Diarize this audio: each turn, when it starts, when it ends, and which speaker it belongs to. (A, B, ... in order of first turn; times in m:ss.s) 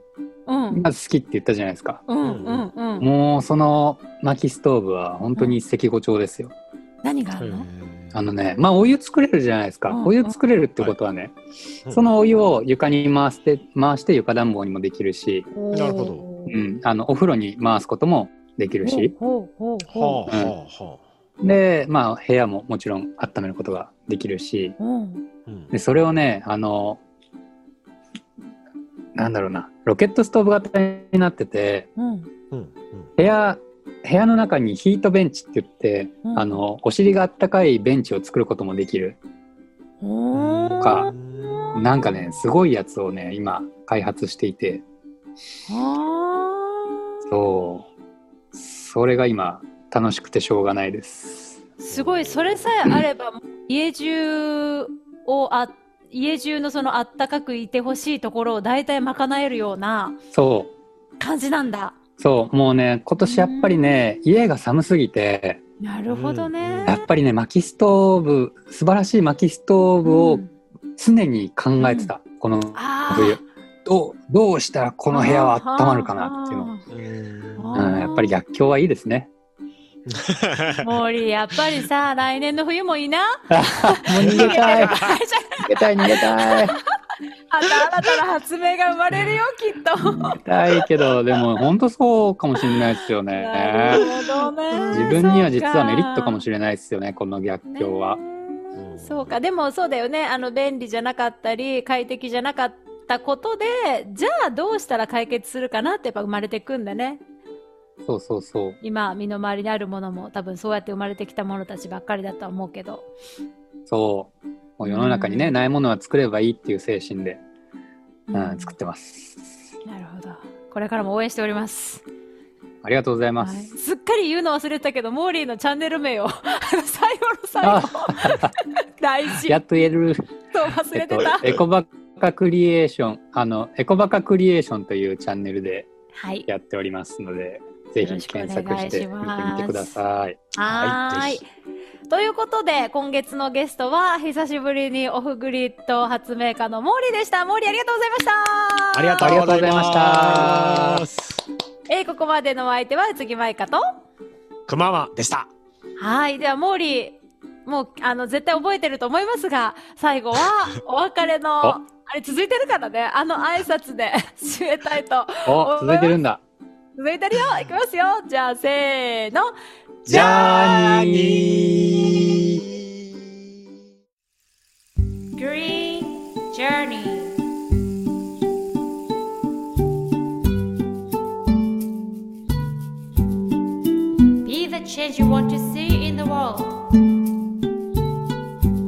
0:00.5-0:00.8 A
0:00.7-0:02.0 B
0:02.1-0:03.1 A
0:02.2-0:02.6 C
0:03.0-0:06.5 B
0:07.0-0:07.7 A
0:07.4-0:08.2 C
0:08.1-0:11.3 B
0:09.9-0:10.3 A
0:11.9-0:15.5 B
0:15.5-0:16.6 A
0:15.7-0:16.3 C
0:16.5-0:19.1 B
0:18.8-0:20.3 A
0:19.8-0:21.0 C
0:20.3-0:20.5 B
0:21.4-0:24.8 B
0:24.8-0:25.2 A
0:25.4-0:25.7 C
0:25.7-0:27.0 B
0:29.1-0:31.9 B
0:32.0-0:32.3 A
0:32.5-0:33.1 C
0:33.2-0:39.2 B
0:36.2-0:36.6 A
0:40.0-0:42.0 A
0:40.3-0:42.0 C
0:40.8-0:41.1 B
0:41.7-0:44.8 B
0:45.7-0:47.0 A
0:47.2-0:47.9 B
0:48.5-0:51.6 B
0:51.8-1:00.2 A
0:51.9-0:52.7 C
1:00.3-1:00.7 B
1:01.2-1:02.0 A
1:02.2-1:05.6 B
1:03.2-1:03.8 A
1:05.8-1:07.1 A
1:06.1-1:07.1 C
1:06.8-1:10.4 B
1:10.0-1:10.5 A
1:11.0-1:16.7 B
1:11.8-1:12.1 A
1:12.7-1:13.4 A
1:15.1-1:16.8 A
1:16.9-1:17.9 C
1:17.6-1:18.3 A
1:17.7-1:19.3 B
1:20.1-1:20.9 C
1:20.8-1:26.8 A
1:23.5-1:25.1 B
1:24.2-1:25.1 C
1:25.6-1:26.8 B
1:27.5-1:30.8 A
1:29.1-1:29.4 C
1:30.1-1:34.1 B
1:32.6-1:36.4 A
1:33.9-1:35.4 C
1:34.9-1:38.2 B
1:37.7-1:47.2 A
1:38.7-1:39.4 C
1:48.1-1:48.8 B
1:48.8-1:53.1 A
1:53.9-1:57.4 B
1:54.8-1:55.5 A
1:58.3-1:58.7 A
1:58.3-1:59.5 B
1:59.8-2:02.0 A
2:02.8-2:03.7 B
2:03.4-2:09.6 A
2:07.6-2:08.5 B
2:09.4-2:15.9 B
2:10.5-2:11.6 A
2:16.2-2:16.5 A
2:16.5-2:20.4 B
2:18.0-2:19.9 A
2:20.5-2:21.4 A
2:20.7-2:21.4 C
2:22.1-2:29.4 A
2:28.9-2:31.4 C
2:29.2-2:31.0 B
2:31.9-2:33.8 A
2:34.7-2:35.5 C
2:36.0-2:46.1 A
2:45.4-2:46.4 B
2:47.0-2:49.5 A
2:50.0-2:50.7 A
2:50.1-2:51.8 B
2:50.1-2:53.4 C
2:55.4-2:57.4 A
3:04.4-3:06.9 A